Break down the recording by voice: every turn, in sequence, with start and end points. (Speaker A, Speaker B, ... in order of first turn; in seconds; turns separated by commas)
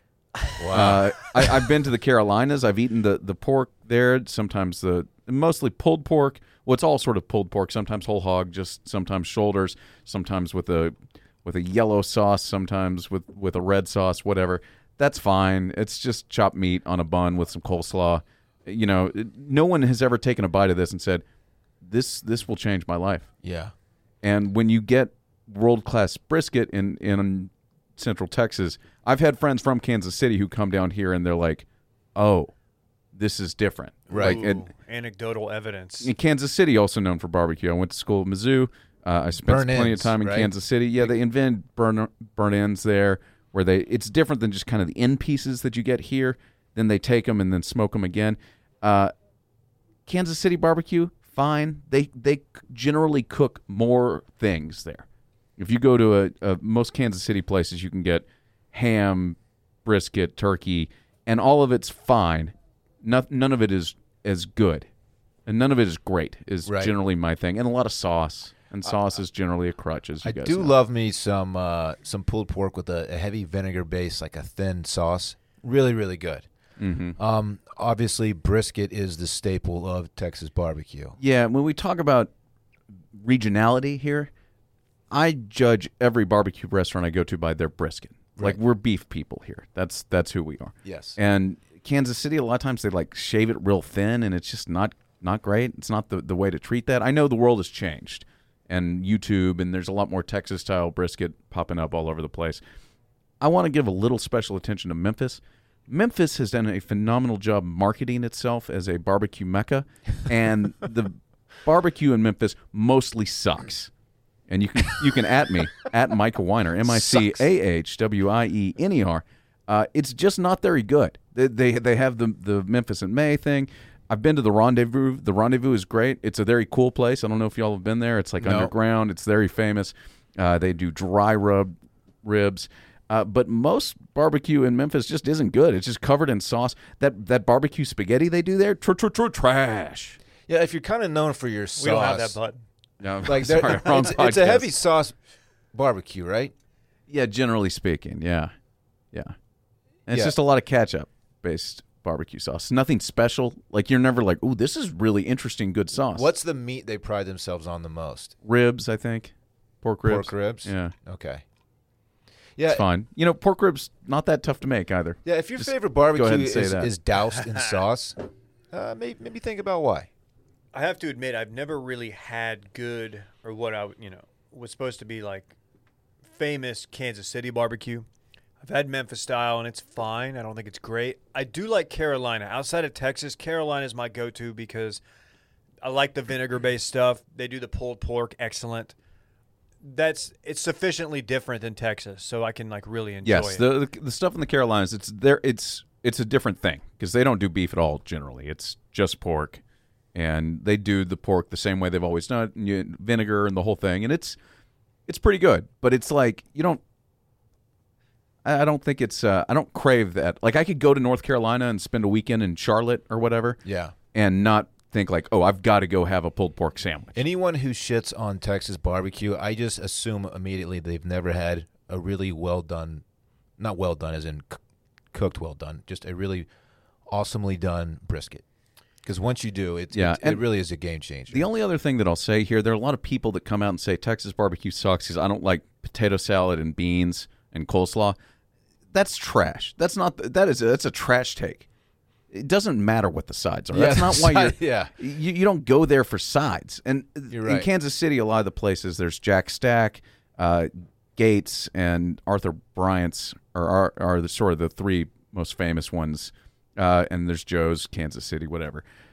Speaker A: 0.6-1.1, Speaker B: 0.7-21.2, Speaker B: 21.8-23.3, Speaker A: 23.4-23.7, Speaker B: 24.2-32.5, Speaker B: 33.1-34.6, Speaker C: 34.1-36.1, Speaker A: 34.1-34.4, Speaker B: 36.0-49.1, Speaker A: 39.4-40.5, Speaker B: 50.0-55.0, Speaker B: 55.6-64.9, Speaker B: 65.5-70.7, Speaker A: 66.6-66.9, Speaker A: 68.8-69.1, Speaker A: 70.2-76.5, Speaker B: 76.8-77.2, Speaker A: 77.2-81.2, Speaker B: 81.2-82.3, Speaker B: 83.1-84.3, Speaker B: 85.1-102.6, Speaker A: 90.8-91.2, Speaker B: 103.4-113.9, Speaker B: 114.5-140.2, Speaker A: 116.8-117.4, Speaker A: 128.4-128.7, Speaker A: 140.5-142.4, Speaker C: 141.8-142.6, Speaker B: 143.0-144.7, Speaker A: 143.2-145.1, Speaker A: 145.7-146.5, Speaker B: 147.1-148.5, Speaker B: 150.1-156.3, Speaker A: 150.1-150.3, Speaker A: 156.1-158.3, Speaker B: 158.4-160.9, Speaker A: 160.0-161.4, Speaker A: 162.6-162.8, Speaker B: 162.7-166.9, Speaker A: 165.2-168.2, Speaker C: 167.4-167.8, Speaker A: 168.7-170.1, Speaker C: 170.7-175.5, Speaker C: 176.3-178.1, Speaker C: 178.6-185.0, Speaker C: 185.8-188.9, Speaker C: 189.8-193.7, Speaker B: 193.2-199.6, Speaker B: 200.1-204.4, Speaker B: 205.1-206.8, Speaker B: 208.4-213.6, Speaker A: 213.6-213.9, Speaker B: 214.1-217.1, Speaker A: 217.1-223.0, Speaker A: 223.6-224.6, Speaker A: 225.1-226.5, Speaker A: 227.1-228.4, Speaker A: 229.0-231.5, Speaker B: 229.9-230.4, Speaker B: 231.3-238.2, Speaker B: 238.9-241.7, Speaker B: 242.3-258.8, Speaker A: 243.7-244.9, Speaker A: 247.3-247.7